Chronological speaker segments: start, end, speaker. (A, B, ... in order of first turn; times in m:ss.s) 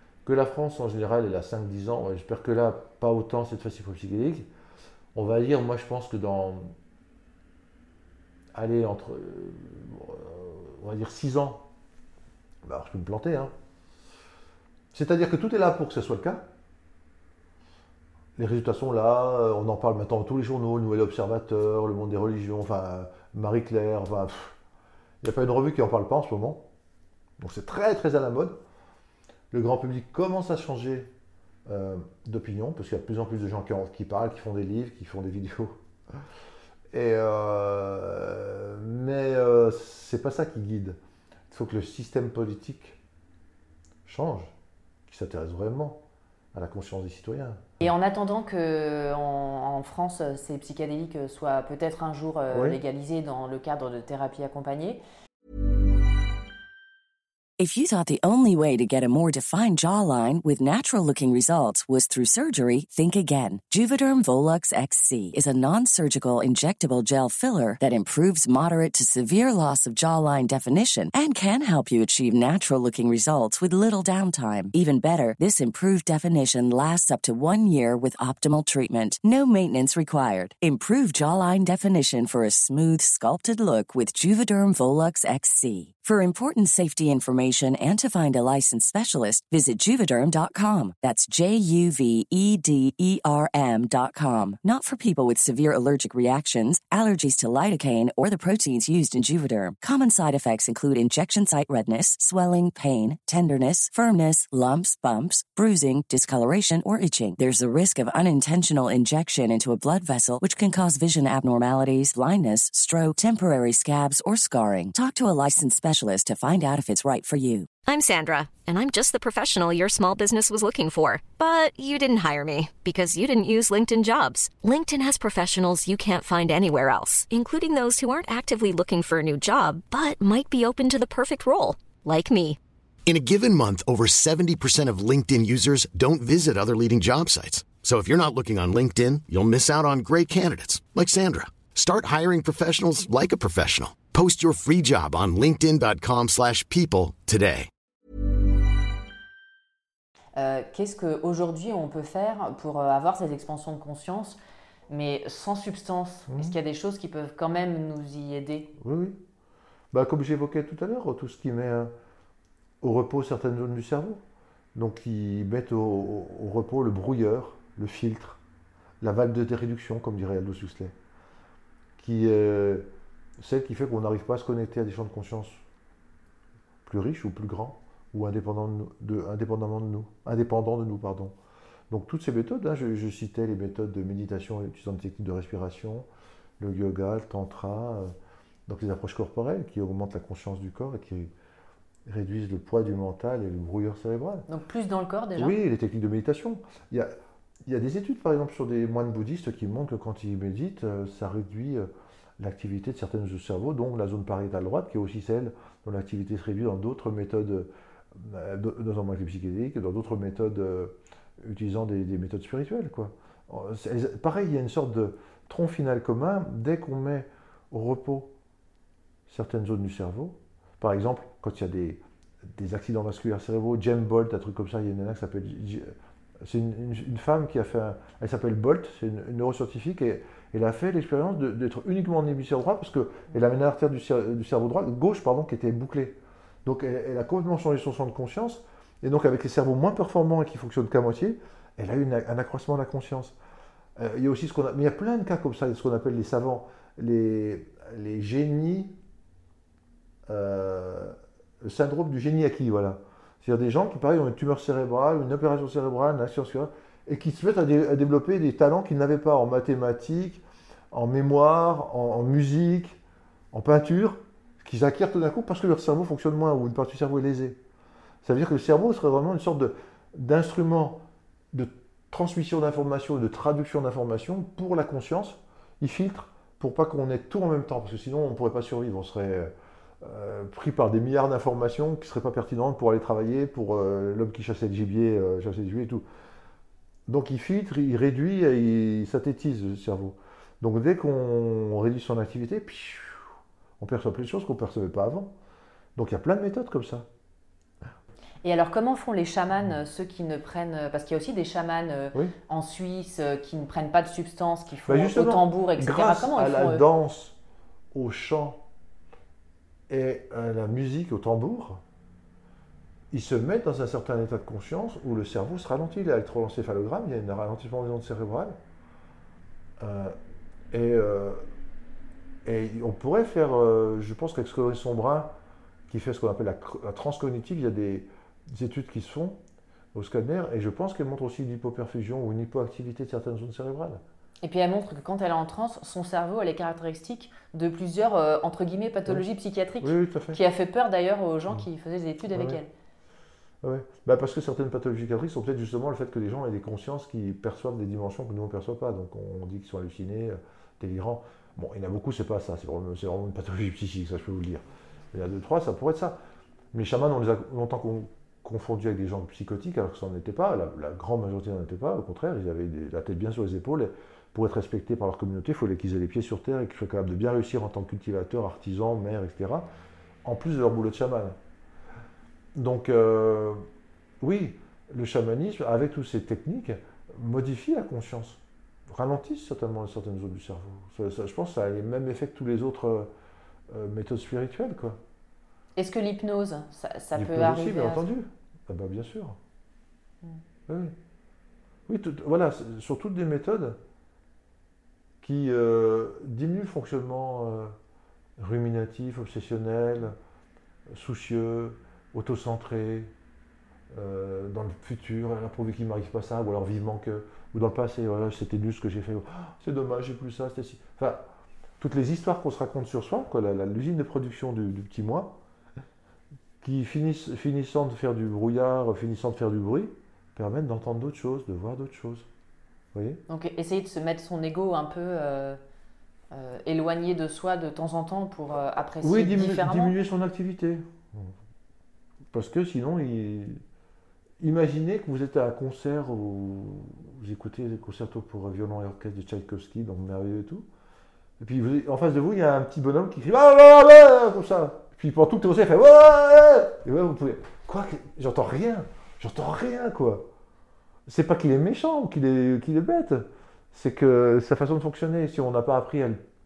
0:00.2-0:04.5 A
0:05.2-0:06.7 A
0:08.5-0:11.7 A
0:12.6-0:13.5 A
0:14.9-0:16.5 A
0:18.4-0:24.6 A
0:25.2-0:26.7 A
0:27.4-0:28.6 A
0:29.5-0:31.1 A
0:31.7-0:35.8 A
0:36.9-0:41.0 A
0:41.5-0:43.0 A
0:44.1-0:44.5 A
0:45.1-0:47.8 A
0:47.8-0:55.0 B
0:52.5-0:52.8 A
0:57.6-1:57.7 C
1:57.8-2:12.6 D
2:13.1-2:27.7 E
2:30.4-2:34.4 B
2:34.9-2:38.7 B
2:36.3-2:36.6 A
2:38.8-2:39.2 A
2:39.9-2:41.9 A
2:42.8-2:44.2 A
2:44.8-2:48.4 A
2:49.0-2:51.0 A
2:52.0-2:55.6 A
2:56.8-3:01.4 A
3:01.9-3:06.1 A
3:06.6-3:08.1 A
3:08.7-3:11.3 A
3:12.1-3:14.5 A
3:14.5-3:15.6 B
3:15.4-3:17.1 A
3:17.7-3:38.3 A
3:39.3-4:03.4 A
4:04.0-4:09.0 A
4:10.3-4:23.0 A
4:23.5-4:27.6 A
4:28.2-4:46.0 A
4:47.1-4:53.2 A
4:53.8-4:55.3 A
4:56.0-4:57.1 A
4:58.4-5:06.8 B
5:04.9-5:07.4 A
5:07.9-5:08.7 A
5:09.9-5:11.8 A
5:13.1-5:18.6 A
5:19.8-5:20.2 A
5:20.7-5:21.4 A
5:22.4-5:25.4 A
5:25.9-5:29.4 A
5:29.9-5:34.0 A
5:34.4-5:42.7 B
5:39.8-5:40.4 A
5:42.3-5:42.6 A
5:43.6-5:56.2 A
5:56.7-6:09.7 A
6:10.2-6:11.4 A
6:12.6-6:13.6 A
6:14.2-6:23.1 A
6:23.7-6:25.0 A
6:25.8-6:28.1 B
6:27.2-6:29.4 A
6:30.7-6:31.0 A
6:31.9-6:33.8 A
6:35.2-6:37.8 A
6:38.4-6:40.2 A
6:40.9-6:43.1 A
6:43.9-6:51.3 A
6:51.8-6:55.4 A
6:56.6-7:02.3 A
7:02.9-7:03.2 A
7:03.3-7:05.6 B
7:06.3-7:09.9 B
7:09.0-7:11.3 A
7:12.3-7:13.6 A
7:14.4-7:20.7 A
7:21.4-7:30.3 A
7:31.1-7:36.2 A